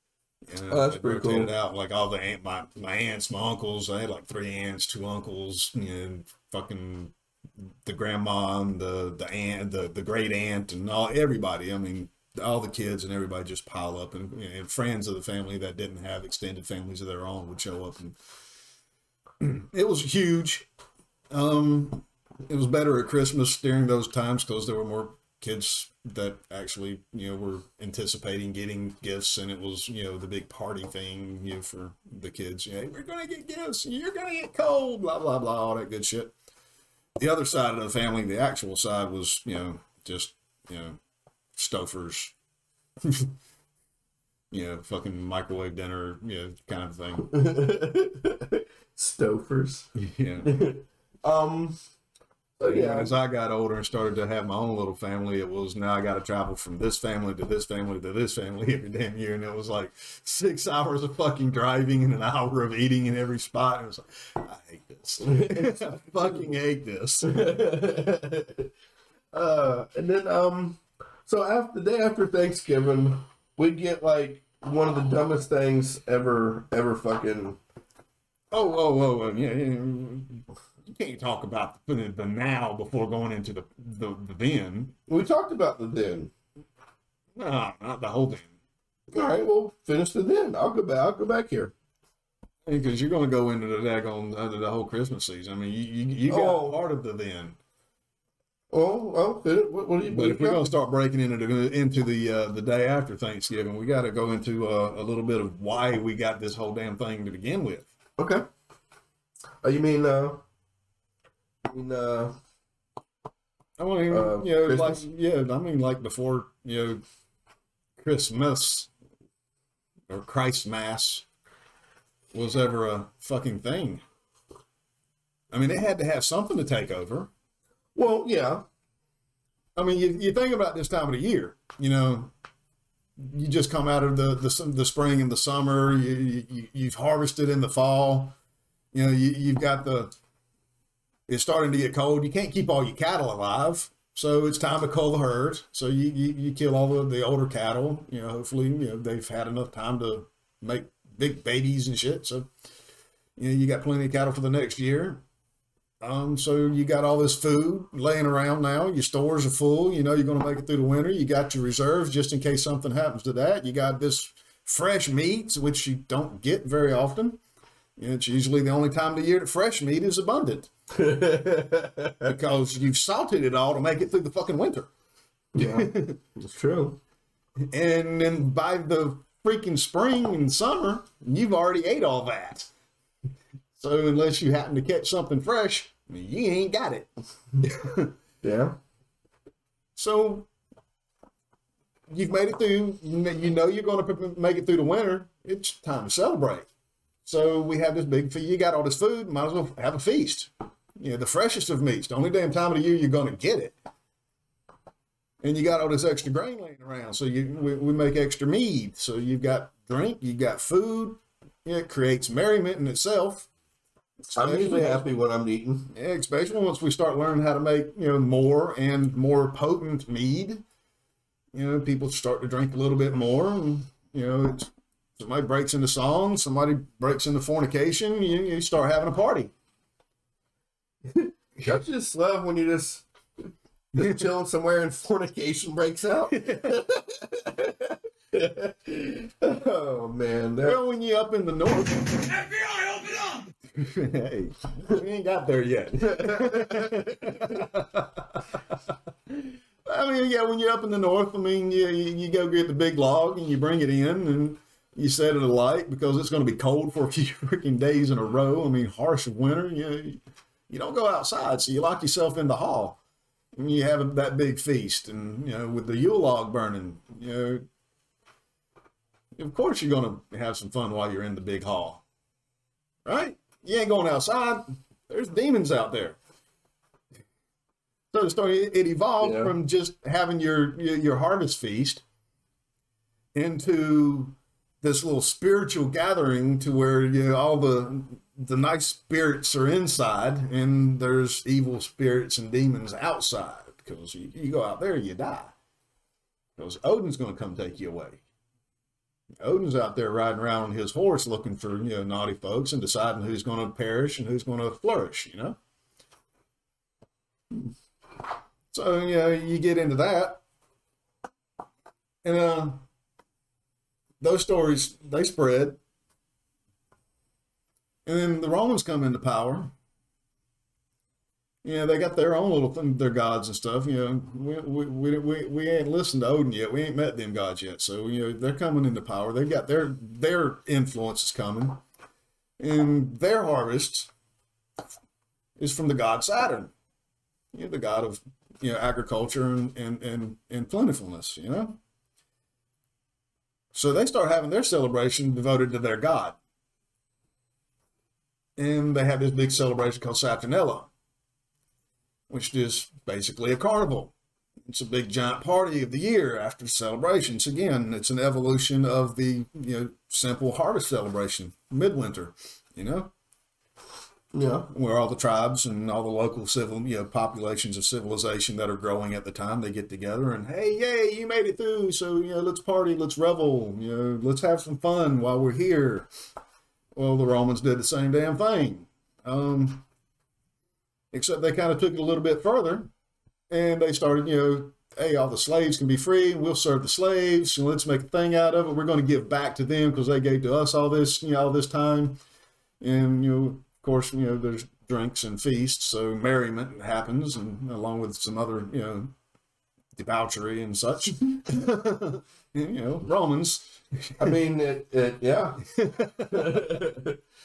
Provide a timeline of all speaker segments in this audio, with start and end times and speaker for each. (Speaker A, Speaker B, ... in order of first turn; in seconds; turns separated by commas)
Speaker A: 0.5-18.2, Speaker B: 0.7-1.5, Speaker A: 19.4-20.7, Speaker A: 21.3-36.3, Speaker A: 37.2-41.0, Speaker A: 41.5-42.3, Speaker A: 43.0-43.3, Speaker A: 44.5-47.3, Speaker B: 47.3-49.9, Speaker A: 49.9-50.5, Speaker B: 50.4-51.8, Speaker B: 52.6-53.1, Speaker A: 52.6-67.7, Speaker B: 65.2-66.4, Speaker B: 67.2-68.7, Speaker B: 69.3-77.6, Speaker A: 78.5-85.0, Speaker B: 85.1-86.3, Speaker A: 87.3-88.5, Speaker B: 89.1-91.7, Speaker A: 92.7-97.6, Speaker B: 96.3-96.8, Speaker B: 98.7-100.7, Speaker A: 100.1-107.9, Speaker B: 108.2-108.5, Speaker B: 109.6-110.4, Speaker B: 111.7-112.4, Speaker A: 113.8-117.0, Speaker B: 114.1-115.0, Speaker A: 118.0-118.9, Speaker A: 120.1-121.2, Speaker A: 122.3-124.0, Speaker A: 125.5-127.3, Speaker B: 128.0-128.6, Speaker A: 129.8-132.3, Speaker A: 133.2-138.3, Speaker A: 138.9-140.1, Speaker A: 141.3-152.5, Speaker A: 153.4-155.2, Speaker A: 156.0-167.4, Speaker A: 168.0-170.7, Speaker B: 170.9-172.3, Speaker A: 172.2-174.9, Speaker B: 175.5-177.0, Speaker A: 175.6-176.2, Speaker A: 177.7-182.7, Speaker A: 183.8-187.1, Speaker A: 187.6-188.1, Speaker B: 188.4-188.8, Speaker A: 189.9-190.5, Speaker A: 192.1-196.7, Speaker A: 197.2-203.7, Speaker A: 205.4-213.5, Speaker A: 214.3-215.1, Speaker B: 214.3-215.9, Speaker A: 215.9-220.6, Speaker A: 221.5-229.5, Speaker B: 231.1-233.0, Speaker B: 233.9-240.8, Speaker A: 234.0-234.2, Speaker A: 236.3-236.7, Speaker A: 240.6-248.6, Speaker B: 246.0-247.6, Speaker A: 249.3-263.0, Speaker A: 263.6-267.6, Speaker A: 269.4-272.0, Speaker A: 273.1-276.2, Speaker A: 278.1-282.0, Speaker B: 279.2-279.5, Speaker A: 283.3-295.5, Speaker A: 296.6-298.2, Speaker A: 299.4-305.6, Speaker A: 308.7-310.4, Speaker A: 312.2-312.8, Speaker A: 314.2-315.8, Speaker A: 318.1-319.7, Speaker A: 321.6-331.8, Speaker A: 332.6-334.1, Speaker A: 335.6-336.7, Speaker A: 337.5-341.8, Speaker A: 343.7-346.4, Speaker A: 348.6-350.9, Speaker A: 352.3-354.1, Speaker A: 354.6-363.1, Speaker B: 364.3-364.7, Speaker A: 364.7-376.1, Speaker A: 376.9-379.9, Speaker A: 381.1-382.9, Speaker A: 383.5-392.2, Speaker A: 392.8-399.1, Speaker A: 399.9-404.4, Speaker B: 404.2-405.7, Speaker A: 405.7-406.8, Speaker B: 406.2-407.2